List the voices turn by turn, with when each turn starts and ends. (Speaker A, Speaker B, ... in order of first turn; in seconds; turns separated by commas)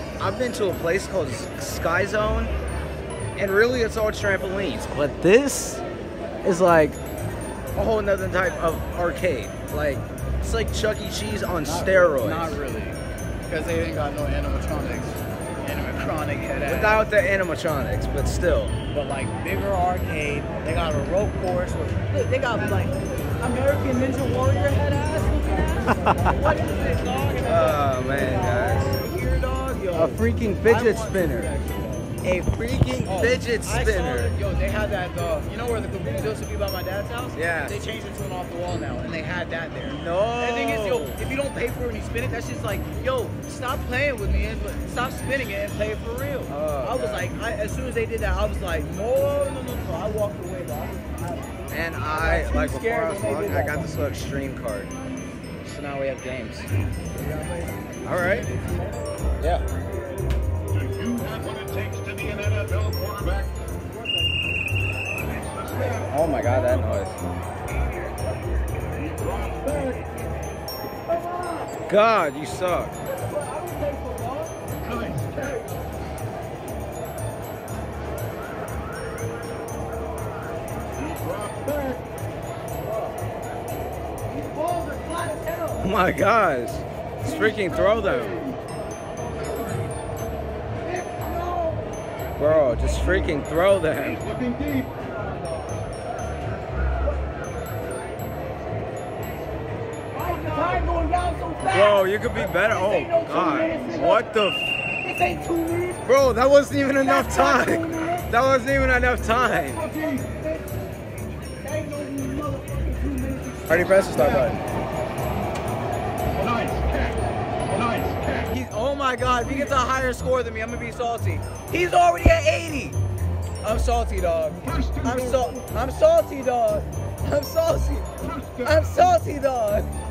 Speaker A: 0.2-2.5, Speaker A: 3.4-5.8, Speaker A: 6.4-7.0, Speaker A: 7.7-12.6, Speaker B: 11.6-17.1, Speaker A: 16.6-18.8, Speaker B: 18.9-32.1, Speaker A: 26.0-26.3, Speaker A: 27.4-29.0, Speaker A: 29.9-31.5, Speaker A: 32.2-34.4, Speaker B: 33.0-53.9, Speaker A: 37.3-37.8, Speaker A: 39.9-41.2, Speaker A: 46.5-47.3, Speaker A: 51.7-54.9, Speaker B: 55.6-59.0, Speaker A: 58.0-58.5, Speaker A: 59.4-59.6, Speaker C: 60.8-63.5, Speaker C: 65.5-66.1, Speaker B: 65.7-67.0, Speaker A: 65.8-67.2, Speaker C: 69.0-70.1, Speaker B: 71.2-71.7, Speaker A: 71.9-72.9, Speaker B: 73.1-74.5, Speaker C: 74.8-75.6, Speaker C: 81.0-82.0, Speaker B: 82.9-83.1, Speaker C: 84.3-85.8, Speaker A: 85.8-88.5, Speaker C: 90.8-91.8, Speaker A: 92.4-94.3, Speaker C: 94.3-95.0, Speaker C: 100.1-101.9, Speaker B: 100.3-104.2, Speaker A: 101.6-104.6, Speaker C: 102.8-104.1, Speaker B: 105.0-105.7, Speaker C: 105.1-106.0, Speaker A: 106.0-109.9, Speaker C: 107.0-108.3, Speaker C: 109.7-110.7, Speaker C: 111.6-114.5, Speaker B: 113.6-114.6, Speaker A: 113.7-114.1, Speaker C: 116.4-117.2, Speaker C: 117.7-118.4, Speaker B: 118.4-123.0, Speaker B: 123.6-129.9